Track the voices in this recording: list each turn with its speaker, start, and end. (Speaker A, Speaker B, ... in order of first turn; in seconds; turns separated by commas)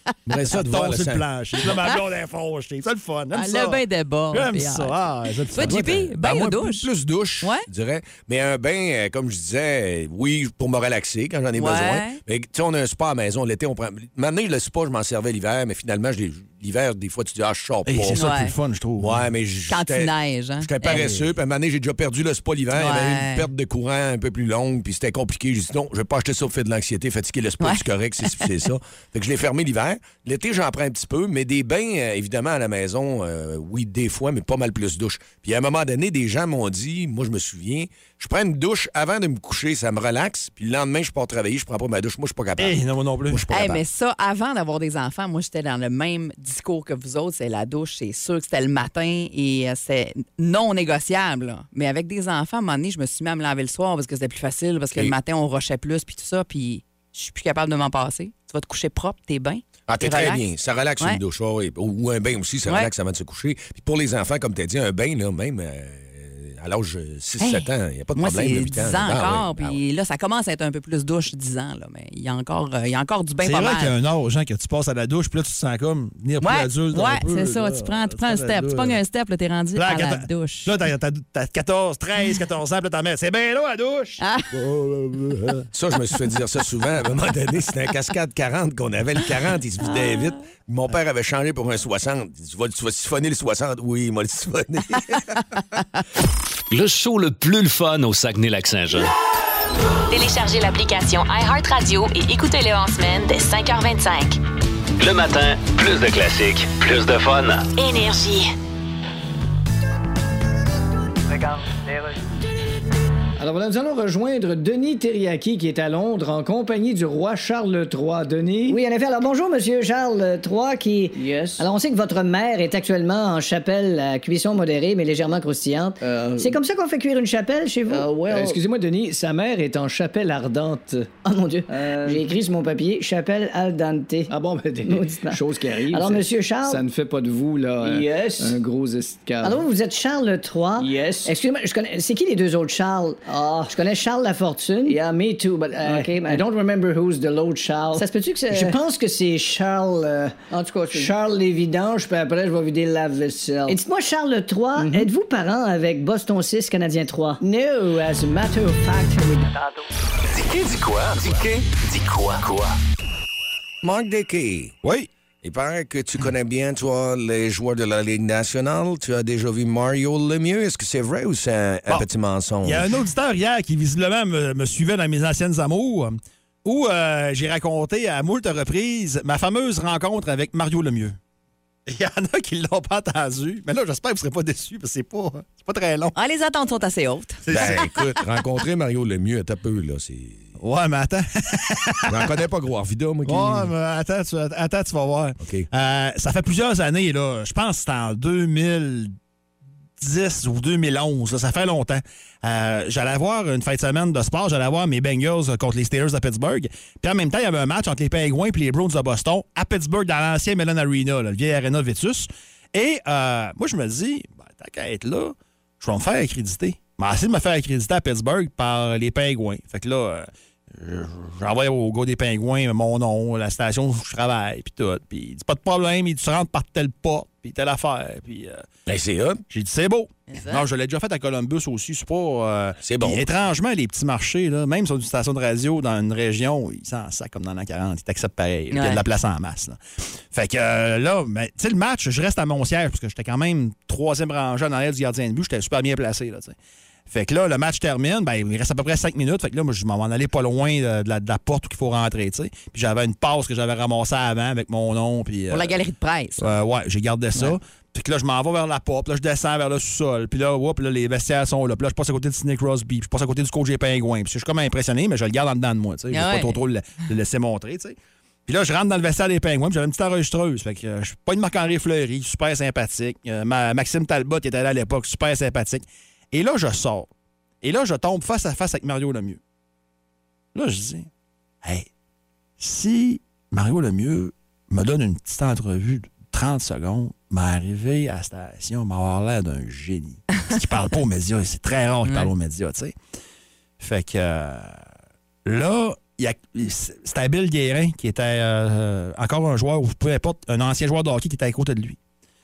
Speaker A: 0.2-1.8, Speaker B: 0.5-6.1, Speaker C: 3.3-5.0, Speaker C: 5.5-6.9, Speaker A: 5.6-18.2, Speaker C: 7.4-7.7, Speaker C: 11.5-12.2, Speaker B: 17.9-19.2, Speaker C: 18.1-18.5, Speaker A: 19.0-42.8, Speaker C: 19.7-21.1, Speaker B: 20.9-21.2, Speaker C: 22.7-23.5, Speaker B: 42.6-43.4, Speaker A: 43.3-43.8, Speaker C: 43.5-60.4, Speaker A: 59.9-69.8, Speaker C: 62.6-62.9, Speaker C: 67.4-74.0, Speaker B: 73.4-79.0, Speaker C: 76.4-80.7, Speaker B: 79.8-85.6, Speaker C: 84.2-84.5, Speaker A: 85.7-95.4, Speaker C: 89.8-90.3, Speaker D: 96.7-99.1, Speaker E: 100.1-104.4, Speaker D: 105.0-107.7, Speaker E: 107.7-108.5, Speaker F: 113.4-118.8, Speaker G: 118.7-128.6, Speaker F: 121.1-121.7, Speaker F: 126.0-126.5, Speaker F: 127.9-131.1, Speaker G: 131.2-136.8, Speaker F: 131.7-132.3, Speaker F: 134.3-139.6, Speaker G: 137.8-138.6, Speaker G: 139.4-146.5, Speaker F: 140.8-141.3, Speaker F: 144.8-148.8, Speaker G: 147.9-151.2, Speaker F: 150.9-153.8, Speaker G: 153.6-159.5, Speaker F: 154.8-155.1, Speaker D: 160.3-162.8, Speaker A: 163.8-164.7, Speaker B: 164.8-165.1, Speaker A: 165.4-172.9, Speaker B: 172.6-181.2, Speaker B: 181.9-186.1, Speaker C: 186.1-187.8, Speaker B: 187.4-188.0, Speaker A: 187.5-190.5, Speaker B: 190.6-192.3, Speaker A: 192.1-193.7, Speaker B: 193.2-199.1, Speaker A: 195.4-195.7, Speaker B: 200.0-228.7, Speaker A: 228.8-229.4, Speaker B: 229.5-239.8, Speaker C: 230.3-230.6, Speaker A: 232.8-233.3, Speaker C: 238.7-239.0, Speaker B: 240.3-246.5, Speaker B: 247.1-255.8, Speaker C: 255.5-256.5, Speaker B: 256.4-277.1, Speaker C: 266.1-266.6, Speaker B: 277.6-279.4, Speaker B: 280.5-281.1, Speaker B: 281.6-281.9, Speaker B: 282.6-292.9, Speaker C: 292.0-292.3, Speaker B: 293.8-294.8, Speaker B: 295.4-302.0